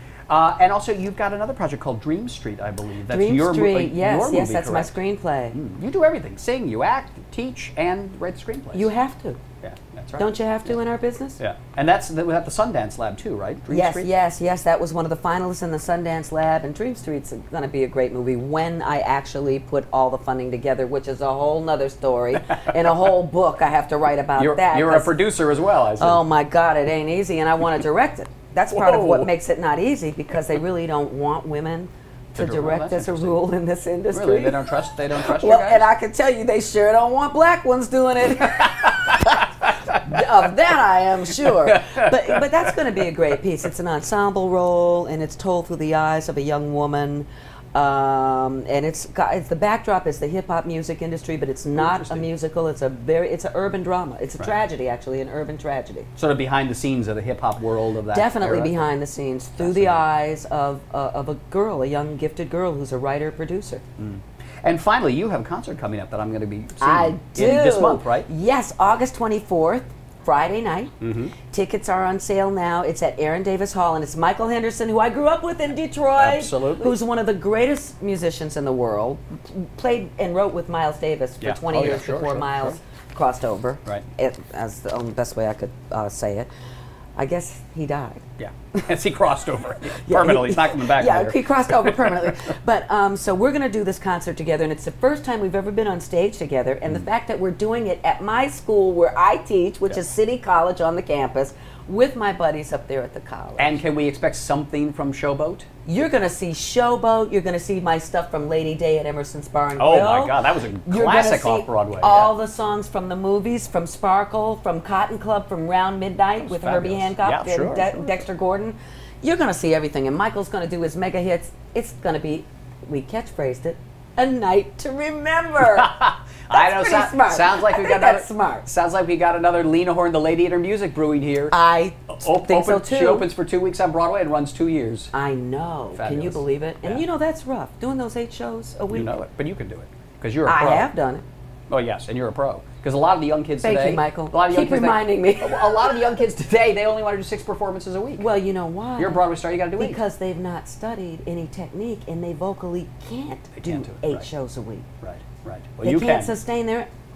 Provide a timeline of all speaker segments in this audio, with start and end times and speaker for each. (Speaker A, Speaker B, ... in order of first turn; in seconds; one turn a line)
Speaker A: 0.3-5.0
Speaker B: 3.1-5.6
Speaker A: 5.5-8.9
Speaker B: 8.7-9.4
Speaker A: 9.6-10.8
Speaker B: 10.2-11.4
Speaker A: 11.4-14.1
Speaker B: 13.7-25.1
Speaker A: 24.4-26.2
Speaker B: 26.0-56.1
Speaker A: 28.7-29.3
Speaker A: 32.3-33.4
Speaker A: 34.1-35.9
Speaker A: 41.4-42.4
Speaker A: 51.8-52.3
Speaker A: 56.2-58.9
Speaker B: 58.1-63.8
Speaker A: 59.6-60.0
Speaker A: 64.0-68.3
Speaker B: 66.8-70.9
Speaker A: 71.0-71.3
Speaker B: 71.5-86.5
Speaker A: 76.2-77.0
Speaker A: 81.4-82.8
Speaker B: 87.2-88.2
Speaker A: 88.4-92.4
Speaker B: 90.0-103.8
Speaker A: 103.6-105.7
Speaker B: 105.9-125.9
Speaker A: 109.8-112.3
Speaker A: 116.4-118.2
Speaker A: 125.6-131.6
Speaker B: 126.5-128.7
Speaker B: 131.5-133.3
Speaker A: 132.1-135.1
Speaker B: 135.1-139.1
Speaker A: 135.9-137.1
Speaker A: 138.9-140.9
Speaker B: 140.5-141.2
Speaker A: 141.7-148.3
Speaker B: 143.6-146.0
Speaker B: 148.2-149.2
Speaker A: 149.0-150.0
Speaker B: 149.8-154.9
Speaker A: 153.6-154.3
Speaker A: 155.0-156.3
Speaker B: 155.8-156.9